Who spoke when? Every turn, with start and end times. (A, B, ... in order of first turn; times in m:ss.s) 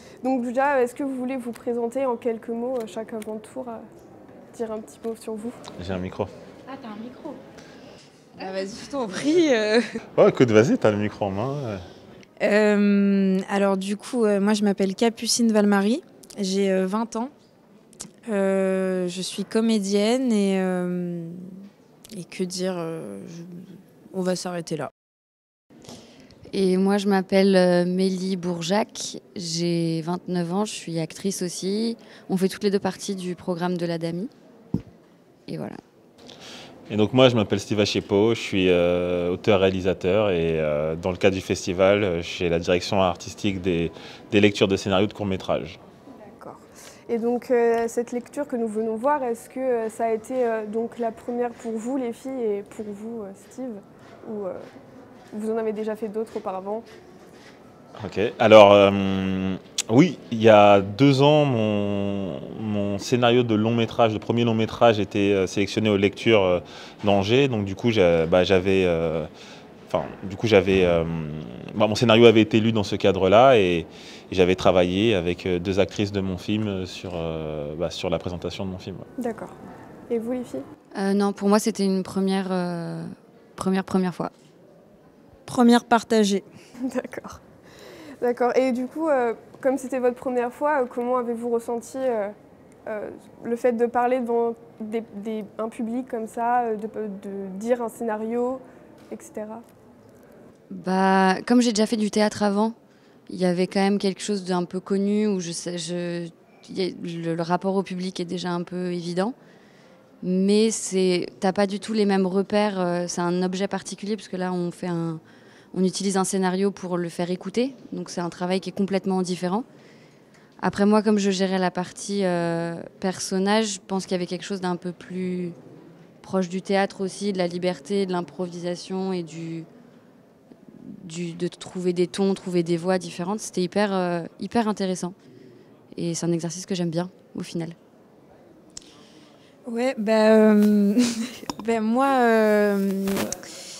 0:00.2-0:03.8 A
0:04.5-0:05.6 A
0:05.8-0:06.3 B
0:06.7-0:07.4 C
0:08.4-0:09.8 C
0:10.2-0:11.8 B
0:12.4-0:17.3 C
0:18.3-0:21.5 C
0:22.1-0:24.9 C
0:26.5-0:34.3 D
0:35.5-0:35.8 D
0:36.9-0:45.8 B
0:46.2-0:54.6 A
0:55.3-0:56.8 A
0:58.0-1:09.3 B
1:09.9-1:19.1 B
1:19.2-1:19.5 A
1:20.1-1:20.6 A
1:20.9-1:24.3 D
1:25.5-1:26.4 C
1:26.8-1:27.4 A
1:28.2-1:32.3 A
1:32.8-1:39.6 A
1:40.7-1:42.7 D
1:43.3-1:49.3 D
1:50.2-1:55.2 D
1:55.7-1:59.6 D
2:00.6-2:05.6 D
2:06.2-2:09.7 D
2:10.7-2:15.1 D
2:15.9-2:17.8 D
2:19.6-2:23.4 C